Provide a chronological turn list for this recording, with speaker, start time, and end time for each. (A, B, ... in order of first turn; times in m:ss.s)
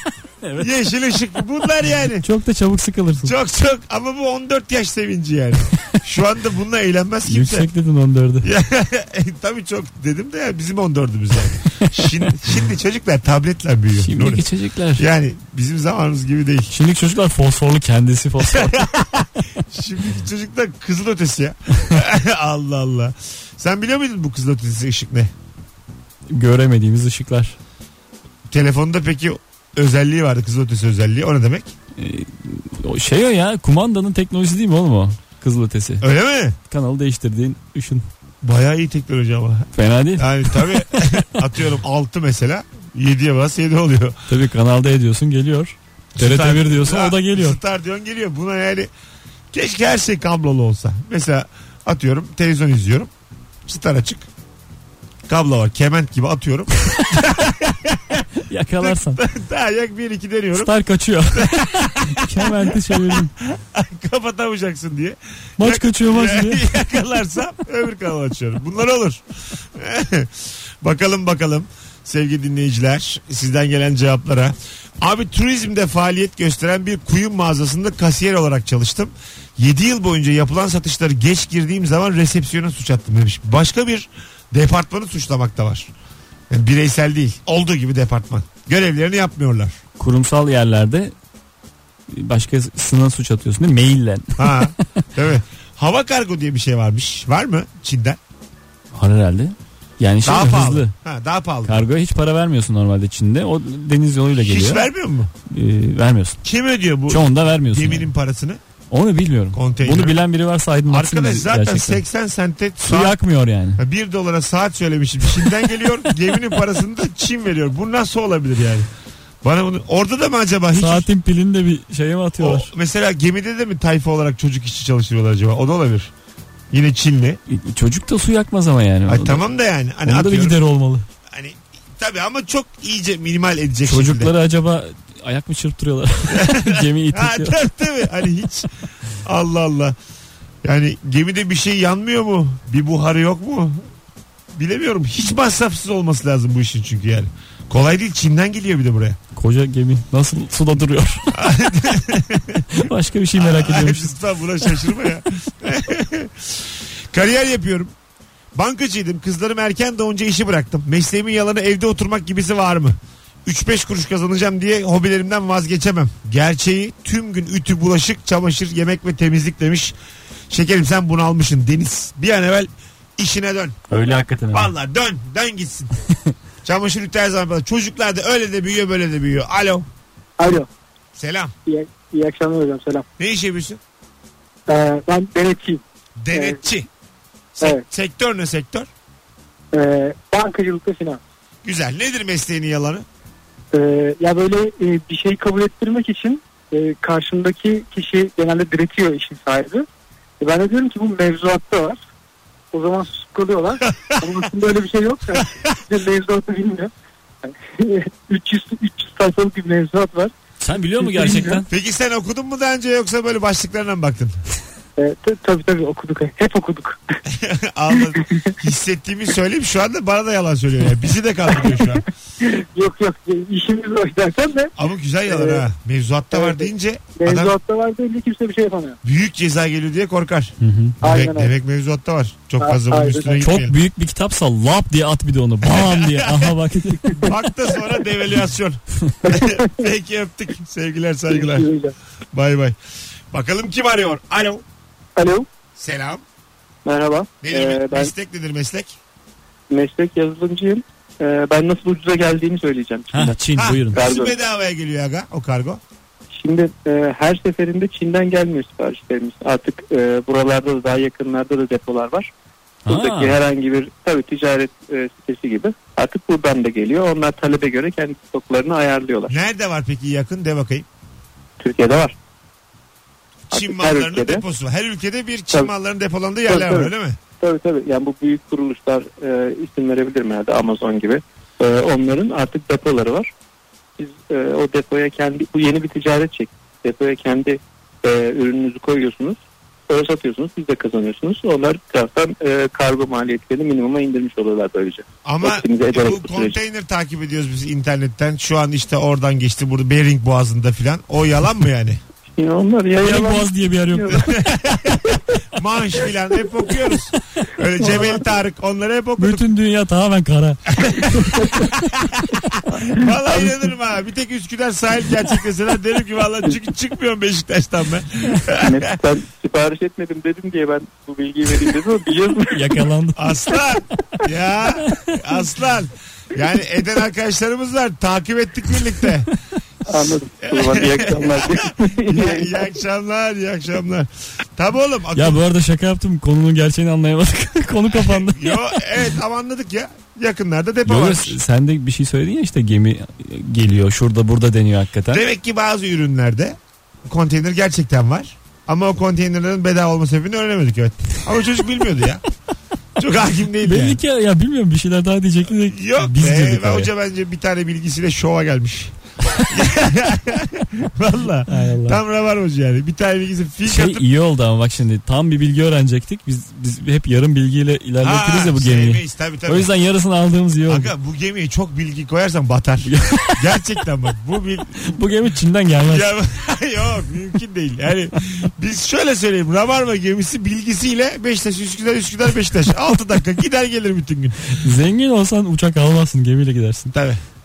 0:00.4-0:00.8 A
0:00.6-0:02.2 B
0:02.2-0:03.3 A
0:03.2-0:07.7 B
0:07.2-0:08.5 A
0:08.4-0:14.4 B
0:14.0-0:15.0 A
0:15.0-0:16.7 B
0:16.7-0:18.9 A
0:18.4-0:25.3 B
0:26.3-0:27.6 A
0:28.5-0:31.7 B
0:32.0-0:36.0 A
0:36.0-0:36.6 B
0:36.7-0:38.0 A
0:38.4-0:44.2 B
0:39.7-0:41.0 A
0:44.3-0:47.6 A
0:46.2-0:48.9 B
0:49.5-0:53.1 B
0:53.6-0:54.3 B
0:55.3-0:58.2 B
0:58.5-0:59.2 A
0:58.8-1:00.7 B
1:00.5-1:03.3 A
1:01.3-1:25.9 B
1:05.6-1:06.8 A
1:26.5-1:29.8 B
1:30.0-1:31.1 A
1:32.1-1:35.0 A
1:34.4-1:38.2 B
1:38.9-1:40.9 A
1:40.2-1:41.9 B
1:41.6-1:44.9 A
1:44.4-1:45.3 B
1:45.4-1:46.4 A
1:46.4-1:48.6 B
1:47.1-1:48.1 A
1:48.9-1:52.0 A
1:49.5-1:50.2 B
1:50.9-1:53.2 B
1:52.8-1:53.8 A
1:53.8-1:58.9 B
1:59.4-2:01.1 B
2:00.8-2:02.7 A
2:02.4-2:06.1 B
2:06.7-2:07.4 B
2:07.5-2:09.4 A
2:09.1-2:10.6 B
2:10.0-2:11.0 A
2:11.3-2:14.3 B
2:13.8-2:17.6 A
2:16.3-2:18.7 B
2:19.2-2:20.0 B
2:20.6-2:23.8 B
2:24.5-2:29.2 B
2:29.4-2:31.3 A
2:31.3-2:32.7 B
2:32.7-2:34.2 A
2:33.3-2:37.9 B
2:38.5-2:49.9 B
2:50.5-2:53.8 B
2:53.9-2:54.7 A
2:54.5-2:56.0 B
2:56.6-2:59.9 B
3:00.4-3:00.7 C
3:01.1-3:01.5 B
3:01.6-3:03.0 C
3:03.2-3:03.8 B
3:04.7-3:06.6 C
3:06.2-3:06.9 B
3:07.6-3:08.9 B
3:09.7-3:11.2 C
3:11.6-3:13.0 B
3:13.7-3:19.8 C
3:20.4-3:22.0 C
3:22.7-3:26.9 C
3:23.9-3:24.2 B
3:25.4-3:25.8 B
3:27.4-3:30.3 C
3:30.6-3:31.7 A
3:31.0-3:31.6 C
3:31.7-3:34.4 B
3:35.0-3:37.0 C
3:37.3-3:42.0 B
3:38.0-3:38.5 C
3:41.6-3:44.7 C
3:44.8-3:47.5 B
3:45.3-3:45.6 C
3:46.3-3:49.0 C
3:49.0-3:53.8 B
3:50.6-3:51.0 A
3:51.0-3:51.5 C
3:52.6-3:53.4 C
3:53.4-3:57.2 A
3:55.6-3:56.6 B
3:57.2-4:01.7 B
3:59.2-3:59.7 C
4:01.3-4:01.9 C
4:02.3-4:02.8 B
4:03.3-4:04.6 B
4:05.2-4:05.5 C
4:05.8-4:06.2 B
4:06.8-4:08.1 C
4:07.4-4:09.0 B
4:09.7-4:13.4 C
4:13.1-4:14.0 A
4:13.6-4:15.8 B
4:13.9-4:14.4 C
4:16.3-4:22.3 C
4:22.8-4:23.4 A
4:22.9-4:29.3 C
4:29.3-4:30.8 B
4:31.6-4:32.1 C
4:33.5-4:37.2 B
4:33.5-4:34.4 C
4:36.5-4:43.3 C
4:44.0-4:56.6 C
4:55.2-5:02.0 B
5:02.4-5:04.3 C
5:03.0-5:04.2 A
5:04.1-5:09.4 B
5:07.8-5:08.2 C
5:09.2-5:11.7 A
5:10.7-5:11.1 B
5:12.0-5:18.8 B
5:13.0-5:13.6 C
5:18.5-5:22.8 C
5:22.5-5:23.2 A
5:23.2-5:29.3 B
5:29.9-5:32.6 C
5:30.4-5:35.4 B
5:35.1-5:38.8 A
5:37.9-5:41.4 B
5:40.8-5:45.2 A
5:45.1-5:52.2 B
5:53.0-5:54.0 B
5:53.6-5:56.9 A
5:55.6-6:04.0 B
6:01.5-6:02.0 A
6:03.6-6:10.9 A
6:08.0-6:09.7 B
6:10.7-6:15.0 B
6:12.8-6:13.4 A
6:14.8-6:16.1 A
6:15.8-6:24.6 B
6:24.6-6:26.9 A
6:26.9-6:27.2 B